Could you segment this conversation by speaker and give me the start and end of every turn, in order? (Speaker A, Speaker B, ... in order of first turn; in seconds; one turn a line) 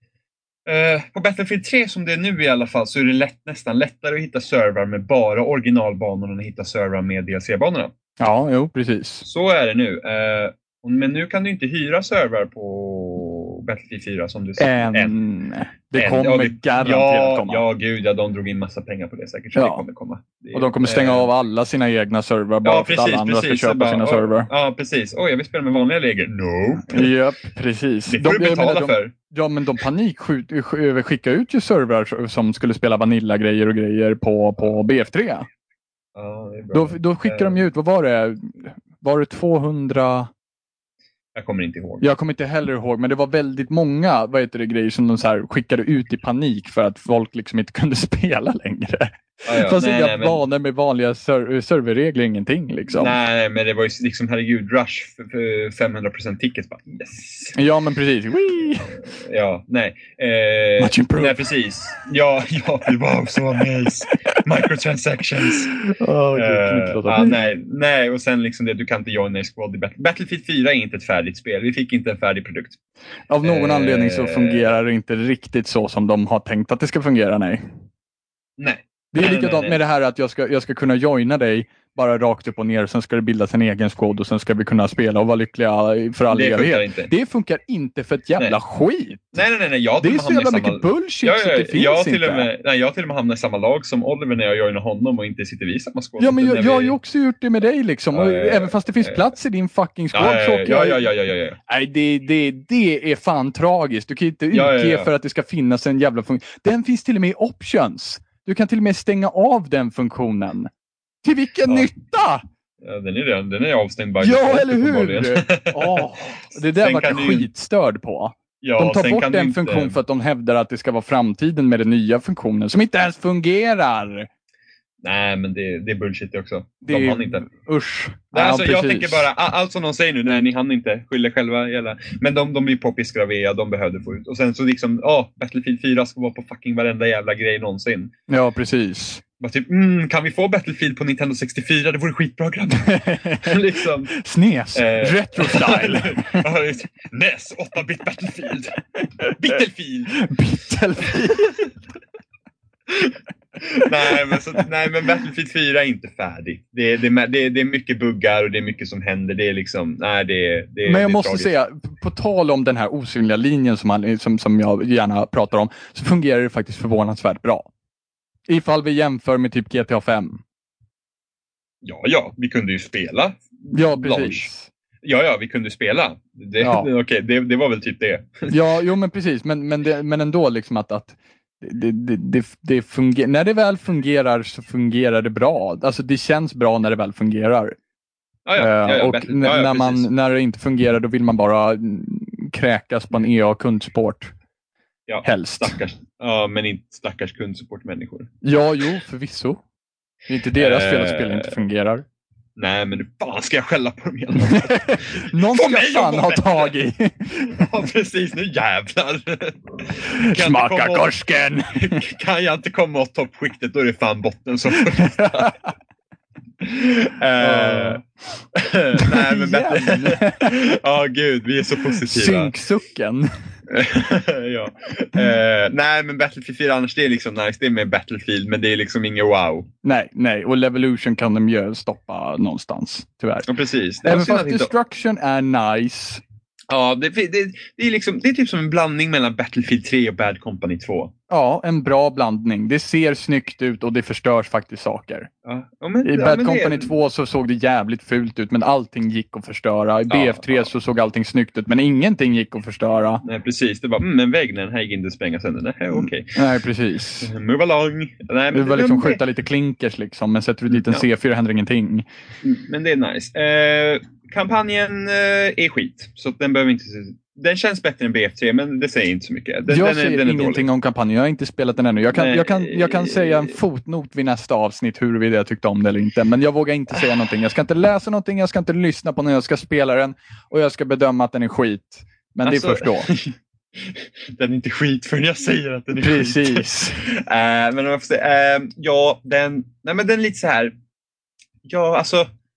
Speaker A: 0.7-7.9
Speaker B: 8.2-9.2
Speaker A: 9.2-15.1
Speaker B: 14.6-17.6
Speaker A: 16.0-21.3
Speaker B: 19.6-19.8
Speaker B: 20.5-24.5
Speaker A: 22.6-27.1
Speaker B: 26.9-35.5
Speaker A: 28.1-29.1
Speaker A: 36.1-37.6
Speaker B: 36.7-40.3
Speaker A: 41.3-42.1
Speaker B: 42.0-53.1
Speaker A: 49.5-50.4
Speaker A: 52.9-57.5
Speaker B: 57.5-59.0
Speaker A: 59.0-65.8
Speaker B: 60.8-61.4
Speaker B: 65.7-67.3
Speaker A: 66.3-72.8
Speaker B: 73.3-77.6
Speaker A: 73.4-74.7
Speaker A: 78.6-79.8
Speaker B: 79.1-89.3
Speaker A: 86.3-87.1
Speaker A: 89.3-97.0
Speaker B: 90.0-92.5
Speaker B: 96.2-101.0
Speaker A: 98.1-99.2
Speaker A: 100.1-101.6
Speaker B: 101.7-110.7
Speaker A: 104.5-105.1
Speaker B: 111.2-112.4
Speaker A: 112.8-117.5
Speaker B: 114.2-124.3
Speaker A: 118.6-120.0
Speaker A: 125.0-127.5
Speaker B: 126.8-129.3
Speaker A: 128.3-138.1
Speaker B: 138.3-139.2
Speaker A: 139.4-144.2
Speaker B: 142.8-143.6
Speaker B: 144.1-146.4
Speaker A: 144.7-150.3
Speaker B: 150.1-151.4
Speaker A: 151.1-151.7
Speaker A: 152.9-161.5
Speaker B: 160.8-167.7
Speaker B: 168.5-170.4
Speaker A: 171.8-174.5
Speaker B: 173.7-174.7
Speaker A: 175.0-178.5
Speaker B: 176.6-176.9
Speaker B: 178.5-187.8
Speaker A: 188.4-190.1
Speaker B: 188.6-194.3
Speaker A: 195.1-198.3
Speaker B: 195.2-195.7
Speaker B: 198.4-199.6
Speaker B: 200.3-202.0
Speaker A: 200.6-201.5
Speaker A: 202.6-206.7
Speaker B: 204.4-207.7
Speaker A: 207.5-215.5
Speaker B: 210.1-212.0
Speaker B: 215.0-215.5
Speaker A: 216.6-218.0
Speaker B: 217.4-218.0
Speaker A: 218.5-222.5
Speaker B: 219.0-220.5
Speaker B: 221.9-223.5
Speaker A: 223.7-229.7
Speaker B: 229.8-233.5
Speaker A: 233.5-234.7
Speaker B: 234.0-236.2
Speaker A: 236.7-241.1
Speaker B: 241.3-245.3
Speaker A: 245.4-246.9
Speaker B: 246.0-253.2
Speaker A: 250.1-250.7
Speaker A: 253.2-256.4
Speaker B: 255.9-257.3
Speaker A: 257.2-259.2
Speaker B: 258.5-262.1
Speaker A: 260.7-261.0
Speaker A: 262.4-270.6
Speaker B: 269.7-283.1
Speaker A: 272.1-273.6
Speaker A: 282.4-290.7
Speaker B: 286.0-287.0
Speaker A: 291.7-292.3